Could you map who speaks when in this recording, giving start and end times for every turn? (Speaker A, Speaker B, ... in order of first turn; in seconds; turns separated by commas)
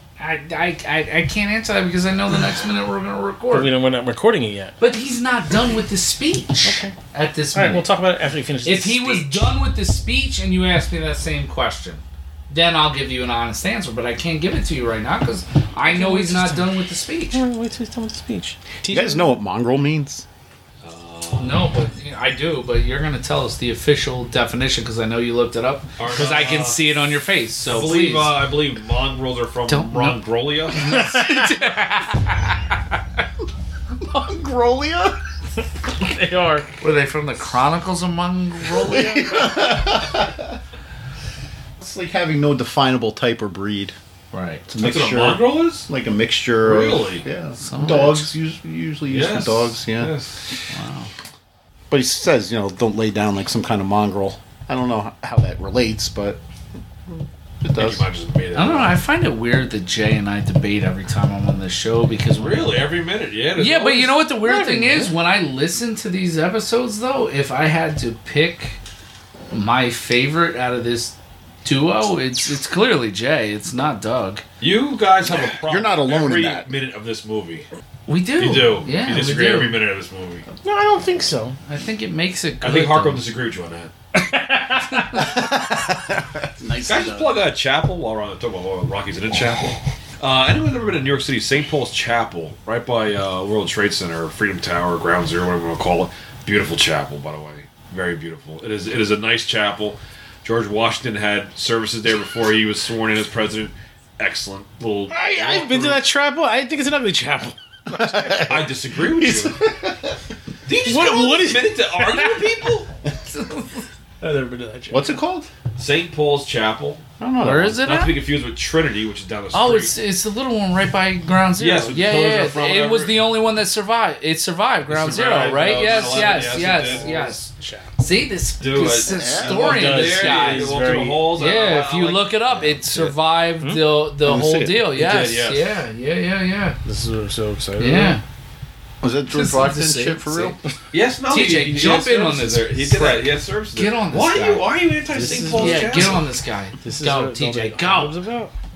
Speaker A: 0.2-3.7, Speaker B: 3.5-4.7, Speaker A: 4.8-7.9, Speaker B: 6.6-7.0, Speaker B: 7.5-9.5, Speaker A: 8.6-17.4, Speaker B: 15.8-16.7, Speaker B: 17.3-19.3, Speaker C: 18.9-20.2, Speaker D: 20.8-21.7, Speaker A: 21.4-28.4, Speaker D: 26.0-26.8, Speaker D: 27.6-30.9, Speaker A: 29.7-30.2, Speaker A: 30.7-32.7, Speaker B: 30.9-31.6, Speaker C: 34.0-35.2, Speaker B: 36.0-36.7, Speaker A: 36.8-39.6, Speaker C: 38.8-40.6, Speaker C: 41.8-44.0, Speaker A: 44.3-44.7, Speaker C: 44.7-50.1, Speaker D: 44.8-45.9, Speaker D: 46.6-47.2, Speaker A: 47.6-48.3, Speaker D: 49.1-50.4, Speaker A: 50.7-51.1, Speaker C: 51.9-56.4, Speaker C: 57.1-58.0, Speaker D: 57.7-59.0, Speaker A: 58.5-62.8, Speaker D: 62.4-64.2, Speaker A: 63.6-68.8, Speaker B: 64.4-65.1, Speaker A: 69.5-74.4, Speaker D: 74.6-77.7, Speaker C: 75.3-76.7, Speaker A: 78.1-79.8, Speaker D: 78.4-80.4, Speaker B: 80.6-81.6, Speaker A: 81.7-83.2, Speaker D: 82.6-83.9, Speaker B: 84.2-85.4, Speaker C: 85.1-87.4, Speaker D: 86.8-106.0, Speaker B: 105.1-108.6, Speaker C: 107.9-110.1, Speaker D: 108.4-109.6, Speaker D: 110.6-112.9, Speaker B: 110.8-112.5, Speaker A: 113.2-113.8, Speaker B: 114.2-115.1, Speaker C: 114.9-115.5, Speaker D: 115.8-117.0, Speaker C: 117.2-117.8, Speaker A: 117.4-118.2, Speaker D: 117.8-119.9, Speaker A: 119.5-136.8, Speaker D: 121.6-123.2, Speaker D: 124.9-127.3, Speaker B: 127.6-127.8, Speaker D: 128.6-132.4, Speaker C: 129.1-129.8, Speaker B: 129.7-131.3, Speaker B: 133.6-134.0, Speaker C: 134.2-134.9, Speaker D: 134.9-135.8, Speaker B: 136.8-138.2, Speaker A: 137.8-138.2, Speaker C: 139.0-140.6, Speaker A: 139.3-140.6, Speaker D: 140.9-146.3, Speaker A: 141.3-144.7, Speaker B: 145.1-146.2, Speaker A: 145.3-148.2, Speaker B: 146.8-148.5